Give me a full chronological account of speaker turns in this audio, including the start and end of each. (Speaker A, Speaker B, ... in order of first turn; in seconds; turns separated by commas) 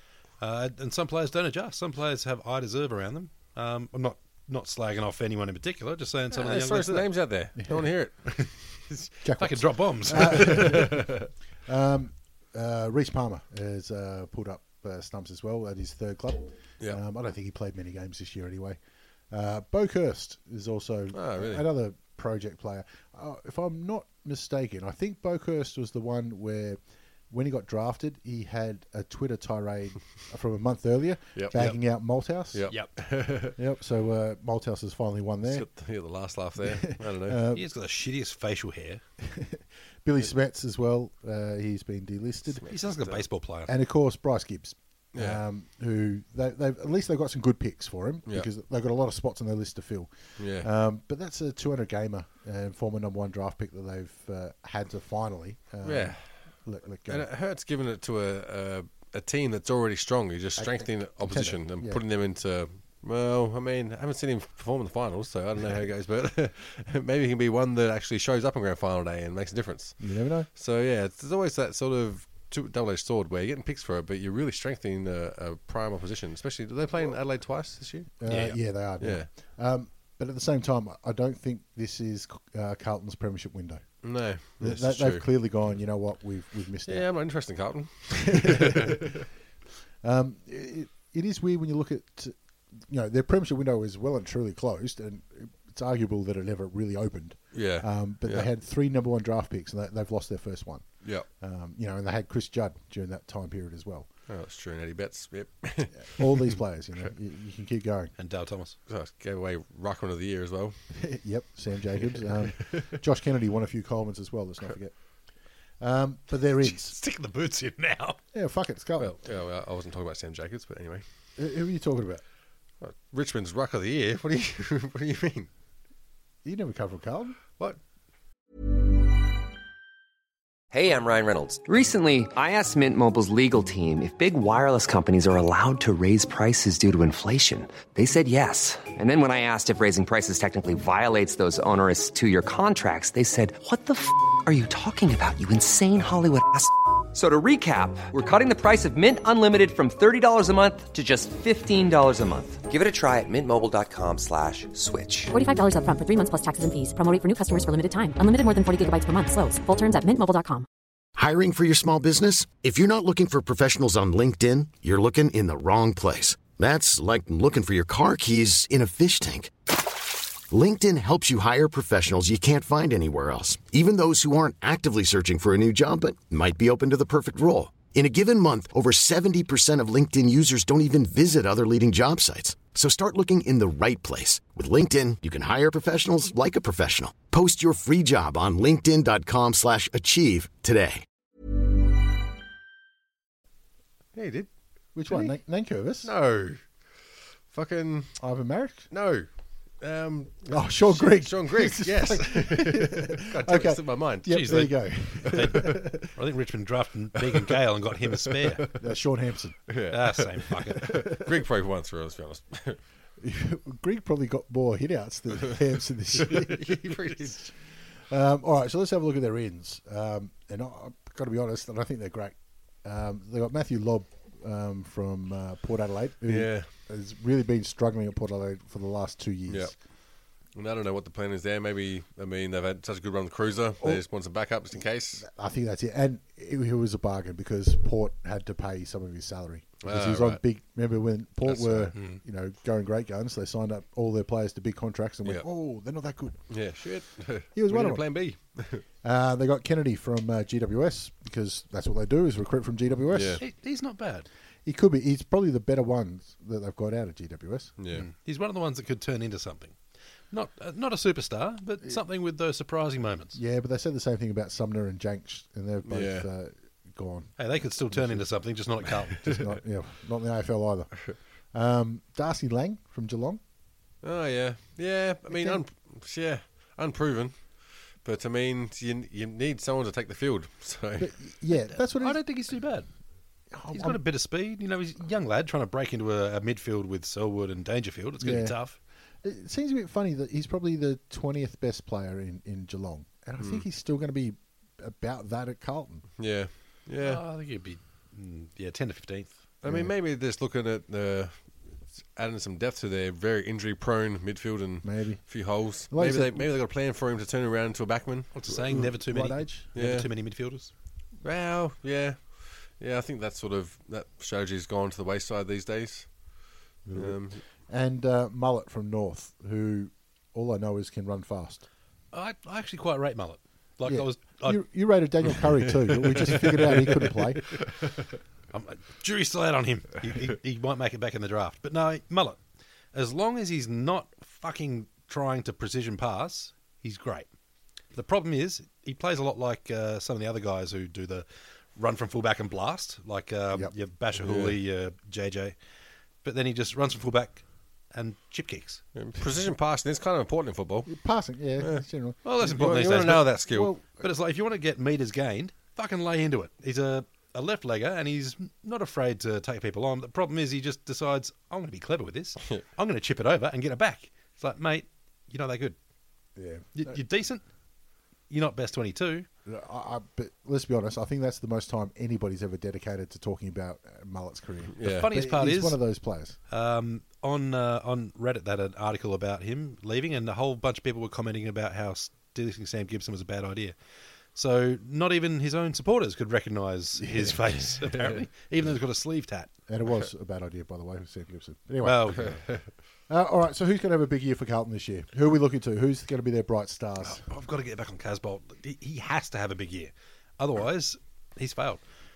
Speaker A: 0.4-7.1, Speaker B: 6.3-9.1, Speaker C: 7.6-7.8, Speaker C: 9.2-18.8, Speaker A: 9.4-10.9, Speaker B: 10.1-11.3, Speaker C: 19.3-32.7, Speaker B: 21.1-21.6, Speaker B: 32.5-33.6, Speaker C: 33.5-35.7, Speaker B: 35.4-37.4, Speaker C: 36.6-37.7, Speaker A: 37.5-39.0, Speaker C: 39.2-42.7, Speaker B: 42.5-43.2, Speaker A: 42.7-43.7, Speaker C: 43.7-57.3, Speaker B: 45.1-45.4, Speaker B: 50.4-50.7, Speaker B: 55.8-56.3, Speaker B: 57.1-78.1, Speaker C: 60.6-62.0, Speaker C: 70.0-70.5, Speaker C: 78.2-83.8, Speaker A: 78.3-78.6, Speaker B: 79.0-79.3, Speaker B: 84.0-85.2, Speaker C: 84.6-87.1, Speaker B: 86.8-89.2, Speaker C: 88.1-89.2, Speaker C: 90.0-104.1, Speaker B: 97.5-98.5, Speaker B: 104.3-106.5, Speaker C: 106.0-108.1, Speaker A: 108.2-108.8, Speaker B: 108.9-110.8, Speaker C: 110.9-115.0, Speaker B: 112.1-112.8, Speaker C: 115.8-116.9, Speaker A: 116.6-118.2, Speaker C: 118.3-119.2, Speaker B: 119.0-121.0, Speaker C: 121.4-122.2, Speaker B: 122.8-125.5, Speaker C: 126.4-127.4, Speaker D: 130.7-155.3, Speaker E: 155.3-160.7, Speaker F: 161.2-169.5, Speaker F: 170.5-191.0, Speaker B: 194.1-194.5, Speaker C: 194.9-196.1, Speaker B: 195.1-195.3, Speaker B: 196.0-196.6, Speaker B: 197.5-198.2, Speaker C: 198.2-198.9, Speaker B: 198.9-205.7, Speaker C: 200.5-206.0, Speaker A: 205.2-208.6, Speaker B: 208.3-208.8, Speaker C: 208.8-209.6, Speaker B: 209.7-212.8, Speaker A: 209.9-210.9, Speaker C: 213.2-217.4, Speaker B: 216.1-217.5, Speaker C: 217.9-229.7, Speaker B: 226.3-226.7, Speaker B: 229.5-229.8, Speaker B: 230.5-235.2, Speaker C: 235.2-246.4, Speaker B: 239.8-240.4, Speaker B: 241.4-241.9, Speaker A: 241.9-242.2, Speaker B: 246.5-248.8, Speaker C: 247.5-248.0, Speaker C: 249.0-253.4, Speaker B: 253.1-253.4, Speaker A: 253.4-254.3, Speaker C: 254.6-257.7, Speaker B: 257.8-258.1, Speaker A: 257.9-259.8, Speaker A: 260.3-263.4, Speaker C: 263.3-268.4, Speaker B: 265.9-266.3, Speaker A: 267.4-269.4, Speaker C: 269.2-273.4, Speaker B: 274.0-281.1, Speaker C: 275.3-275.6, Speaker C: 281.0-282.2, Speaker A: 281.9-282.9, Speaker C: 283.5-284.0, Speaker A: 283.7-288.8, Speaker C: 288.2-288.6, Speaker C: 289.2-296.1, Speaker B: 293.4-293.6, Speaker B: 296.2-297.2, Speaker A: 297.0-299.3, Speaker B: 299.6-308.3, Speaker C: 299.6-299.9, Speaker C: 304.8-306.5, Speaker A: 308.3-310.7, Speaker C: 308.5-309.7, Speaker B: 309.7-310.1, Speaker B: 311.2-316.2, Speaker C: 316.9-321.6, Speaker B: 316.9-317.4, Speaker A: 322.1-324.7, Speaker C: 323.8-327.7, Speaker A: 326.3-327.1, Speaker A: 328.5-332.4, Speaker A: 332.9-337.3, Speaker A: 337.9-345.6, Speaker B: 344.2-344.6, Speaker A: 346.2-348.8, Speaker B: 348.9-350.9, Speaker C: 350.9-354.1, Speaker A: 352.2-365.8, Speaker B: 352.4-353.7, Speaker C: 366.4-367.0, Speaker A: 366.7-367.4, Speaker A: 368.3-369.3, Speaker C: 369.4-376.4, Speaker B: 374.7-375.1, Speaker A: 374.8-375.8, Speaker A: 376.5-383.7, Speaker A: 384.3-389.5, Speaker C: 387.0-387.4, Speaker C: 389.7-392.4, Speaker A: 391.8-392.4, Speaker B: 392.1-392.7, Speaker C: 393.1-397.2, Speaker A: 397.0-401.8